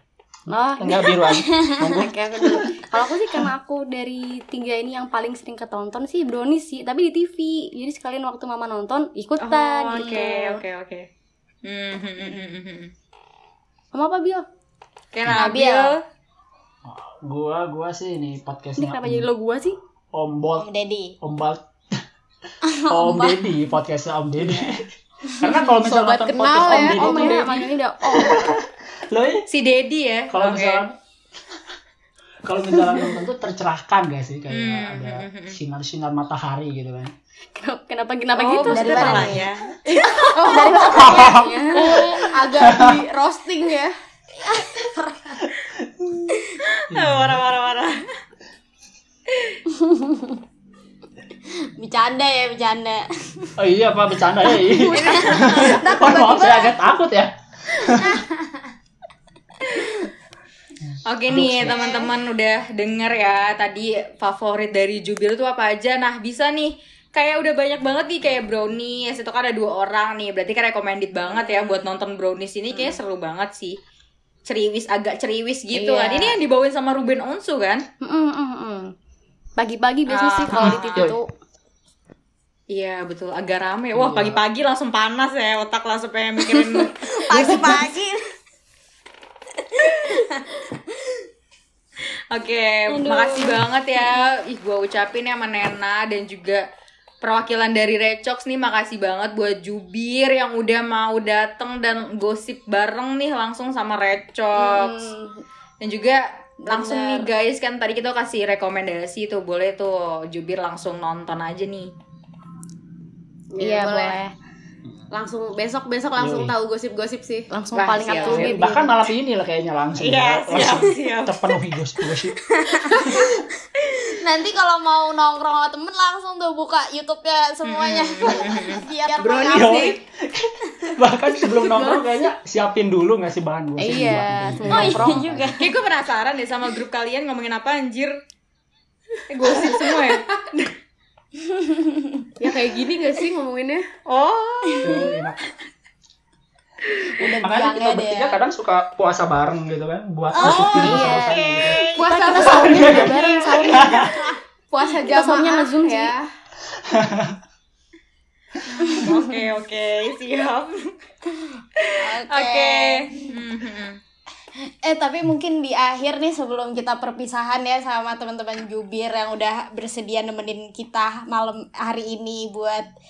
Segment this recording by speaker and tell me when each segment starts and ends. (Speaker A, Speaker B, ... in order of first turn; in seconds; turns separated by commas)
Speaker A: 0.5-1.3, Speaker B: 0.8-2.9, Speaker C: 1.5-2.0, Speaker A: 1.9-10.4, Speaker D: 9.4-11.1, Speaker C: 9.9-10.6, Speaker D: 11.6-12.9, Speaker A: 13.9-14.5, Speaker D: 15.1-16.0, Speaker C: 15.3-16.0, Speaker B: 16.9-19.3, Speaker A: 18.8-19.8, Speaker B: 20.1-20.7, Speaker C: 20.6-21.1, Speaker B: 21.2-22.0, Speaker C: 22.6-23.4, Speaker B: 22.9-29.5, Speaker E: 25.8-27.7, Speaker A: 26.6-28.5, Speaker D: 29.5-30.8, Speaker B: 30.3-31.0, Speaker B: 32.5-37.1, Speaker D: 34.5-35.6, Speaker A: 37.6-42.2, Speaker D: 38.4-39.8, Speaker C: 38.6-39.5, Speaker E: 39.9-41.2, Speaker C: 40.4-41.9, Speaker B: 40.9-43.0, Speaker E: 41.7-43.9, Speaker C: 44.4-45.4, Speaker B: 45.4-46.3, Speaker D: 46.6-48.1, Speaker B: 46.9-47.5, Speaker D: 49.3-49.6, Speaker C: 49.8-50.4, Speaker C: 51.8-53.5, Speaker B: 53.6-58.2, Speaker C: 54.7-56.8, Speaker D: 54.9-56.2, Speaker E: 55.8-56.6, Speaker C: 57.8-58.7, Speaker B: 60.9-61.9, Speaker D: 61.1-73.8, Speaker C: 61.7-62.1, Speaker D: 74.5-77.8, Speaker E: 75.9-76.4, Speaker A: 78.0-78.9, Speaker A: 79.6-81.3, Speaker D: 80.1-81.1, Speaker B: 80.6-81.2, Speaker D: 82.7-87.9, Speaker B: 83.9-84.4, Speaker C: 86.8-88.2, Speaker C: 89.8-90.5, Speaker D: 92.3-96.6, Speaker C: 92.9-94.3, Speaker D: 97.2-105.1, Speaker C: 104.6-105.2, Speaker D: 105.8-111.9, Speaker E: 106.7-107.3, Speaker E: 113.5-114.2, Speaker A: 113.6-114.3, Speaker E: 115.1-117.5, Speaker B: 116.2-116.5, Speaker A: 117.5-119.0, Speaker D: 117.7-118.5, Speaker B: 118.2-123.3, Speaker D: 120.0-121.6, Speaker C: 122.7-123.0, Speaker D: 123.8-124.2, Speaker C: 124.1-130.0, Speaker D: 127.6-128.9, Speaker B: 129.2-135.6, Speaker E: 129.6-129.9, Speaker A: 133.8-135.3, Speaker C: 134.7-135.7, Speaker D: 135.6-138.1, Speaker D: 139.3-140.7, Speaker E: 139.4-140.2, Speaker C: 141.4-142.3, Speaker E: 142.4-143.8, Speaker D: 144.1-145.1, Speaker C: 144.7-145.0, Speaker B: 144.8-145.4, Speaker C: 147.2-148.4, Speaker B: 147.2-154.3, Speaker C: 150.3-150.9, Speaker D: 150.4-152.6, Speaker A: 150.8-154.2, Speaker E: 151.9-153.5, Speaker E: 154.7-156.3, Speaker A: 155.0-156.1, Speaker B: 156.7-157.4, Speaker B: 158.7-159.1, Speaker D: 158.9-164.0, Speaker C: 162.0-163.3, Speaker C: 164.6-172.9